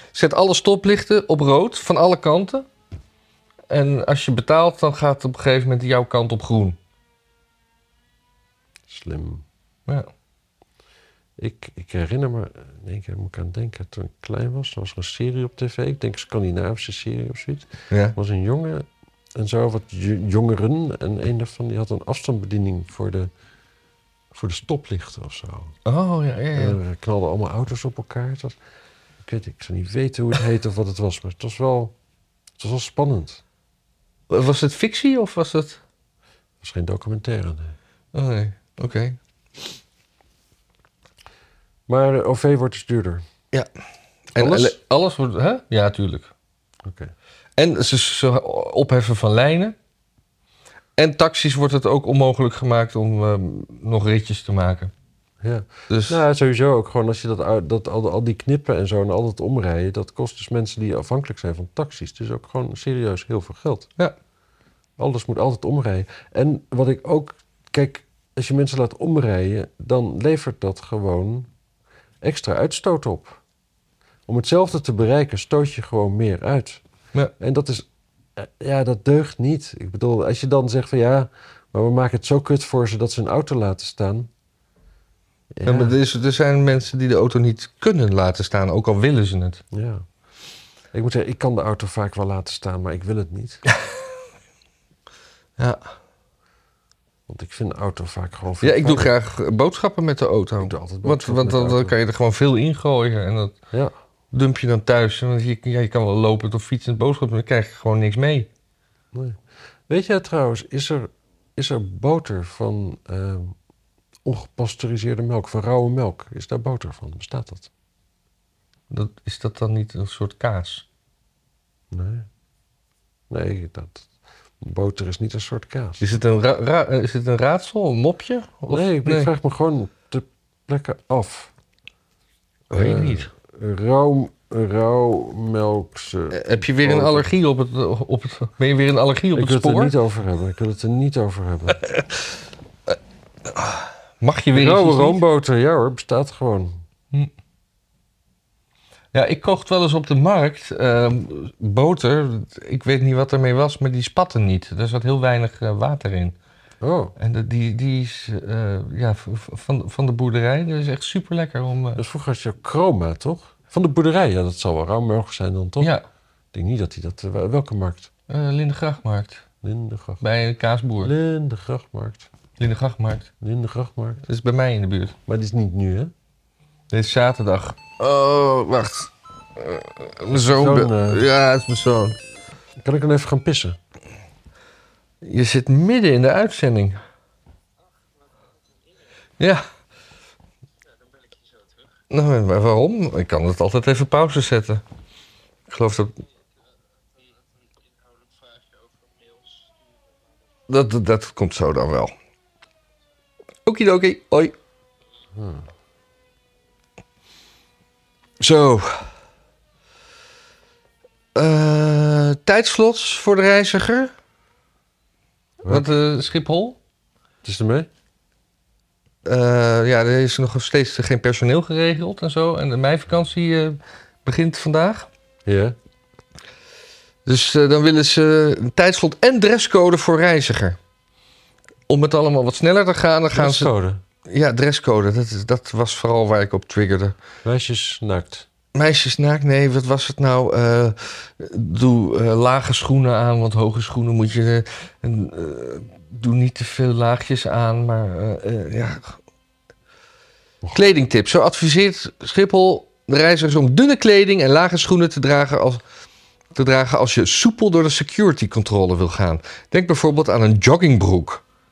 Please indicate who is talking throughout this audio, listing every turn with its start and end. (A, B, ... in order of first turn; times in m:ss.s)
0:00.1-0:02.7 A
0:03.7-0:06.8 A
0:08.9-0:09.4 B
0:11.4-0:23.3 B
0:17.9-0:18.2 A
0:24.3-0:25.8 B
0:25.8-0:26.8 A
0:26.6-0:28.6 B
0:29.2-0:31.9 B
0:32.6-0:33.4 B
0:34.3-0:35.8 A
0:36.6-0:37.8 B
0:38.1-0:39.2 A
0:41.9-0:43.2 B
0:44.3-0:46.3 A
0:44.4-0:44.8 B
0:46.8-0:47.1 B
0:47.6-0:49.8 A
0:51.0-0:54.9 A
0:55.4-1:03.9 B
0:55.9-0:56.2 A
1:05.0-1:11.5 B
1:12.2-1:13.4 B
1:14.3-1:16.8 B
1:17.4-1:17.9 B
1:18.4-1:24.3 B
1:25.5-1:26.0 B
1:25.7-1:29.6 A
1:29.7-1:30.1 B
1:30.9-1:33.6 B
1:35.6-1:35.9 A
1:37.3-1:39.1 B
1:38.6-1:43.6 A
1:40.6-1:42.0 B
1:44.3-1:48.5 A
1:49.1-1:53.6 B
1:54.2-1:57.7 B
1:58.9-2:00.9 A
2:01.9-2:02.3 B
2:03.3-2:04.1 B
2:04.6-2:06.0 B
2:06.0-2:09.3 A
2:08.7-2:11.5 B
2:12.7-2:17.3 B
2:12.7-2:13.3 A
2:16.3-2:19.9 A
2:19.4-2:21.9 B
2:21.8-2:22.2 A
2:22.9-2:25.2 A
2:24.5-2:26.8 B
2:29.1-2:36.4 A
2:36.8-2:37.2 B
2:37.2-2:42.0 A
2:42.0-2:45.9 B
2:46.5-2:48.1 B
2:48.3-2:49.4 A
2:49.6-2:50.2 B
2:50.2-2:51.1 A
2:51.0-2:52.3 B
2:52.6-2:53.3 A
2:53.4-2:54.2 B
2:54.3-2:55.2 A
2:55.3-2:56.1 B
2:56.9-3:02.2 A
3:00.3-3:01.3 B
3:02.8-3:03.8 B
3:05.2-3:07.0 A
3:09.4-3:09.7 A
3:12.1-3:14.8 A
3:15.7-3:16.2 A
3:20.7-3:22.1 A
3:23.7-3:24.5 A
3:25.4-3:25.7 B
3:28.4-3:29.1 A
3:31.4-3:34.1 A
3:35.7-3:36.8 A
3:37.4-3:37.9 B
3:39.2-3:45.1 A
3:45.5-3:45.8 B
3:47.3-3:50.8 A
3:51.9-3:53.7 A
3:53.3-3:54.0 B
3:54.2-3:57.2 A
3:57.4-3:58.5 B
3:58.7-4:09.2 A
4:10.7-4:15.8 A
4:16.6-4:21.4 A